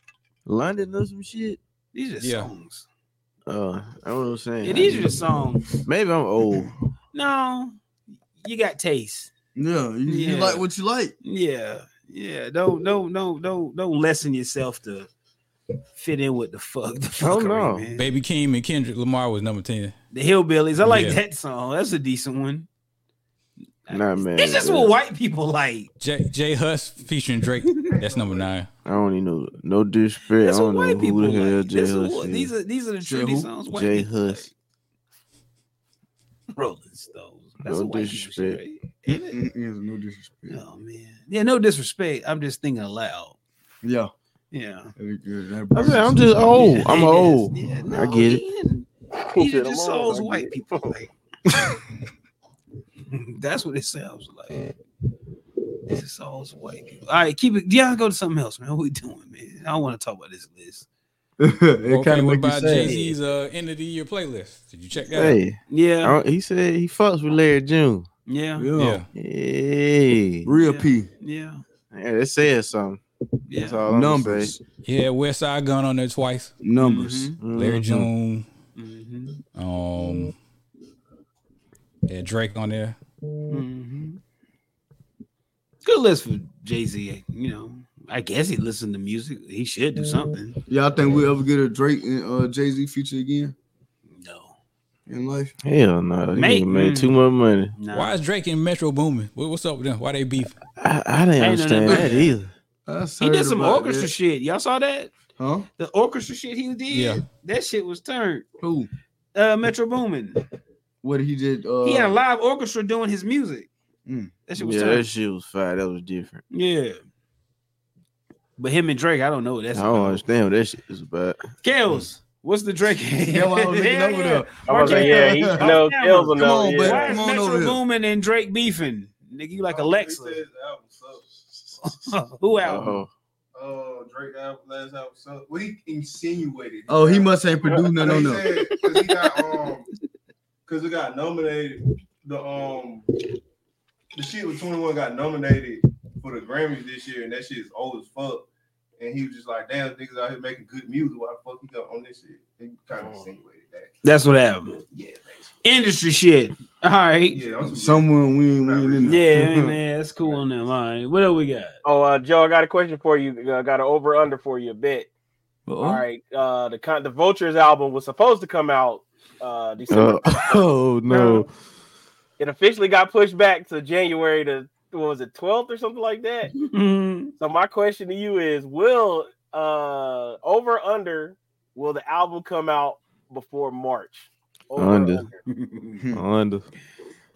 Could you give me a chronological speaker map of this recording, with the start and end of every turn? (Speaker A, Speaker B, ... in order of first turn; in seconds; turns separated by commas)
Speaker A: 0.5-1.6, Speaker B: 1.9-2.9, Speaker C: 2.2-2.5, Speaker A: 3.5-5.1, Speaker B: 4.6-5.7, Speaker A: 5.9-6.7, Speaker B: 7.1-7.8, Speaker B: 8.4-9.3, Speaker D: 9.6-11.1, Speaker B: 10.1-10.6, Speaker B: 11.2-15.1, Speaker B: 16.0-18.1, Speaker A: 17.2-17.9, Speaker C: 17.9-19.9, Speaker B: 20.1-22.7, Speaker C: 20.8-21.2, Speaker B: 23.9-25.9, Speaker A: 23.9-24.9, Speaker C: 26.0-28.7, Speaker A: 28.8-32.5, Speaker B: 30.4-34.5, Speaker D: 33.0-33.5, Speaker A: 33.7-34.5, Speaker B: 36.5-39.4, Speaker A: 37.6-38.6, Speaker D: 39.1-40.6, Speaker B: 40.5-43.4, Speaker D: 43.8-44.1, Speaker B: 44.5-44.9, Speaker D: 45.0-46.8, Speaker A: 45.7-48.4, Speaker B: 46.5-51.1, Speaker E: 49.3-50.9, Speaker B: 53.1-54.7, Speaker B: 55.9-60.9, Speaker D: 61.4-63.1, Speaker C: 61.9-65.4, Speaker A: 65.1-68.1, Speaker B: 65.7-66.2, Speaker B: 68.3-68.7, Speaker D: 68.6-69.0, Speaker C: 68.8-69.1, Speaker A: 69.1-70.5, Speaker D: 70.4-71.1, Speaker B: 70.6-71.6, Speaker A: 71.9-74.5, Speaker B: 73.5-73.8, Speaker D: 73.9-74.6, Speaker C: 74.8-76.5, Speaker D: 76.6-77.3, Speaker B: 76.8-77.4, Speaker A: 77.4-78.1, Speaker C: 77.5-78.5, Speaker B: 78.8-79.4, Speaker C: 79.5-80.3, Speaker C: 82.1-83.0, Speaker B: 83.5-84.2, Speaker B: 85.8-90.6, Speaker D: 90.7-93.5, Speaker B: 94.1-94.5, Speaker D: 95.1-95.5, Speaker A: 95.6-97.7, Speaker B: 96.4-97.2, Speaker B: 97.8-98.1, Speaker C: 97.9-100.6, Speaker A: 100.8-102.5, Speaker B: 101.4-102.3, Speaker D: 102.9-104.1, Speaker B: 103.2-105.1, Speaker D: 105.4-105.7, Speaker B: 105.8-108.5, Speaker C: 106.9-107.2, Speaker D: 108.6-108.9, Speaker B: 109.3-110.4, Speaker D: 111.0-112.2, Speaker B: 111.8-113.7, Speaker D: 114.0-114.3, Speaker B: 114.5-115.0, Speaker A: 114.5-116.4, Speaker B: 116.5-117.0, Speaker B: 118.6-120.2, Speaker A: 119.7-121.4, Speaker B: 121.6-130.4, Speaker D: 123.3-125.8, Speaker E: 124.7-127.2, Speaker D: 126.3-127.8, Speaker F: 129.7-131.4, Speaker B: 131.8-133.0, Speaker A: 132.6-133.1, Speaker F: 133.5-139.9, Speaker D: 136.9-138.5, Speaker F: 140.7-143.1, Speaker F: 144.1-148.5, Speaker F: 149.0-153.9, Speaker B: 154.0-154.9, Speaker B: 155.6-157.4, Speaker F: 157.3-159.4, Speaker D: 157.6-159.7, Speaker B: 159.1-161.7, Speaker E: 161.8-165.1, Speaker D: 165.7-166.0, Speaker E: 165.8-170.6, Speaker A: 169.9-171.5, Speaker B: 171.1-171.4, Speaker E: 172.4-176.5, Speaker B: 176.6-177.3, Speaker E: 177.4-185.3, Speaker A: 184.8-185.3, Speaker B: 185.5-186.0, Speaker A: 186.1-186.7